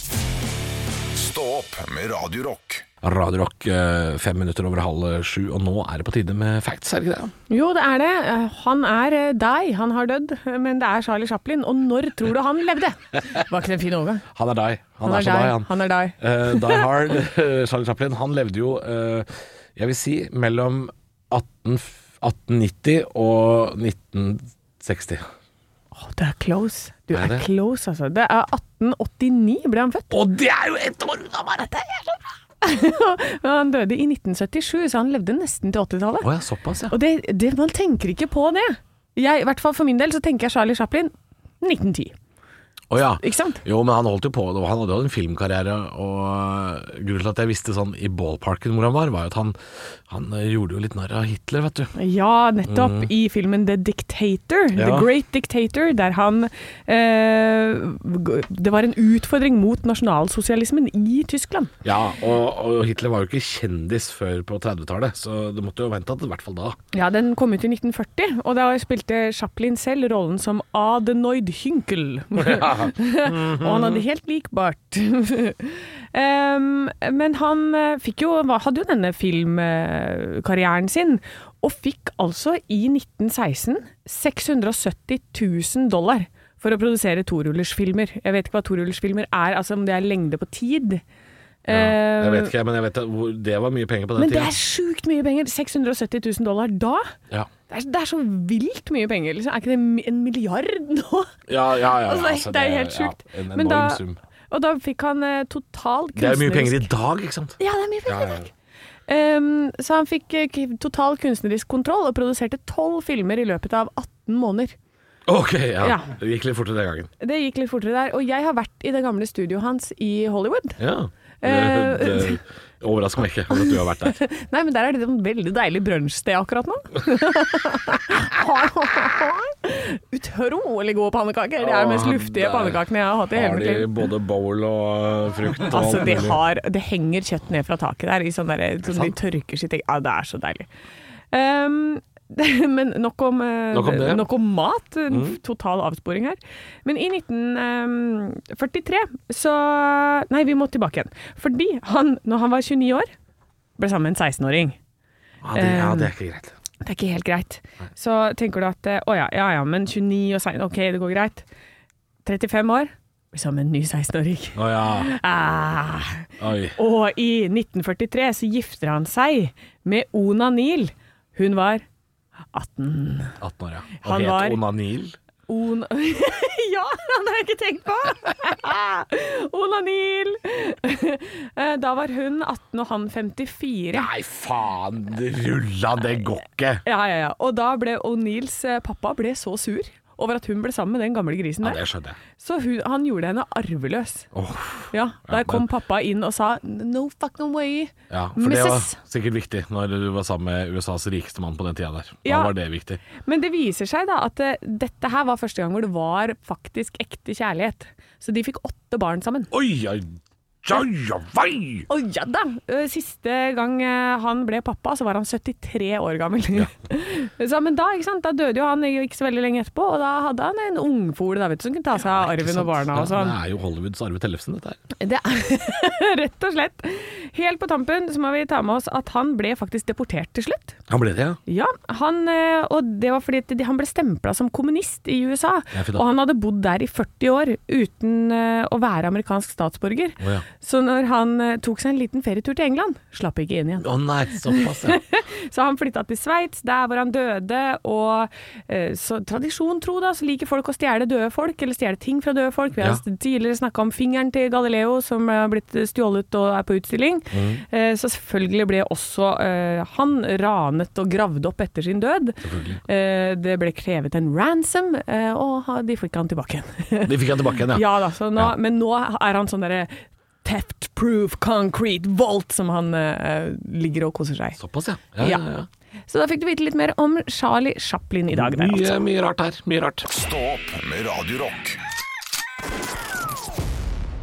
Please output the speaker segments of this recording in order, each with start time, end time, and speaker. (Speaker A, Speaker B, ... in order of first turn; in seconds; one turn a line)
Speaker A: 1.1-2.8
Speaker B: 3.0-7.3
Speaker C: 7.5-14.2
Speaker B: 14.3-25.2
Speaker C: 15.0-16.9
Speaker C: 25.9-30.2
Speaker B: 27.1-27.4
Speaker B: 30.1-32.3
Speaker C: 32.6-36.3
Speaker B: 36.2-37.0
Speaker C: 36.9-42.1
Speaker B: 42.9-51.9
Speaker C: 43.2-43.6
Speaker C: 51.9-61.7
Speaker B: 52.7-53.1
Speaker B: 54.7-55.1
Speaker B: 61.8-66.8
Speaker C: 66.9-91.0
Speaker B: 72.4-74.0
Speaker C: 91.6-92.5
Speaker B: 91.7-94.5
Speaker C: 94.2-97.1
Speaker C: 97.7-101.3
Speaker B: 101.5-104.2
Speaker C: 101.9-106.9
Speaker B: 106.2-108.5
Speaker C: 107.6-108.5
Speaker C: 109.1-114.7
Speaker B: 115.2-117.1
Speaker C: 115.8-116.1
Speaker C: 117.2-120.8
Speaker B: 120.8-124.2
Speaker C: 121.4-122.4
Speaker C: 123.5-133.9
Speaker B: 131.6-136.4
Speaker C: 135.7-140.7
Speaker B: 138.8-139.1
Speaker C: 141.3-153.1
Speaker B: 143.7-144.3
Speaker B: 145.1-145.4
Speaker C: 153.8-154.8
Speaker B: 155.4-156.5
Speaker C: 155.5-156.1
Speaker C: 156.8-161.4
Speaker C: 162.2-171.8
Speaker B: 164.5-165.1
Speaker B: 166.4-166.8
Speaker C: 172.5-173.3
Speaker B: 173.4-175.2
Speaker C: 174.0-174.6
Speaker C: 175.5-184.1
Speaker B: 183.9-186.8
Speaker C: 186.8-191.8
Speaker B: 191.6-192.2
Speaker C: 192.4-194.3
Speaker B: 194.3-195.7
Speaker C: 194.9-198.9
Speaker B: 198.1-203.0
Speaker C: 202.2-202.5
Speaker C: 203.2-209.5
Speaker B: 209.5-211.9
Speaker C: 211.9-223.3
Speaker B: 221.9-224.8
Speaker C: 225.0-230.8
Speaker B: 230.9-231.4
Speaker C: 231.4-274.6
Speaker B: 235.7-236.1
Speaker B: 240.2-240.4
Speaker B: 243.8-245.0
Speaker B: 257.3-257.6
Speaker B: 262.4-262.8
Speaker B: 267.1-268.5
Speaker B: 274.6-275.7
Speaker C: 275.2-275.4
Speaker C: 276.1-279.0
Speaker B: 278.3-280.1
Speaker A: 280.1-281.8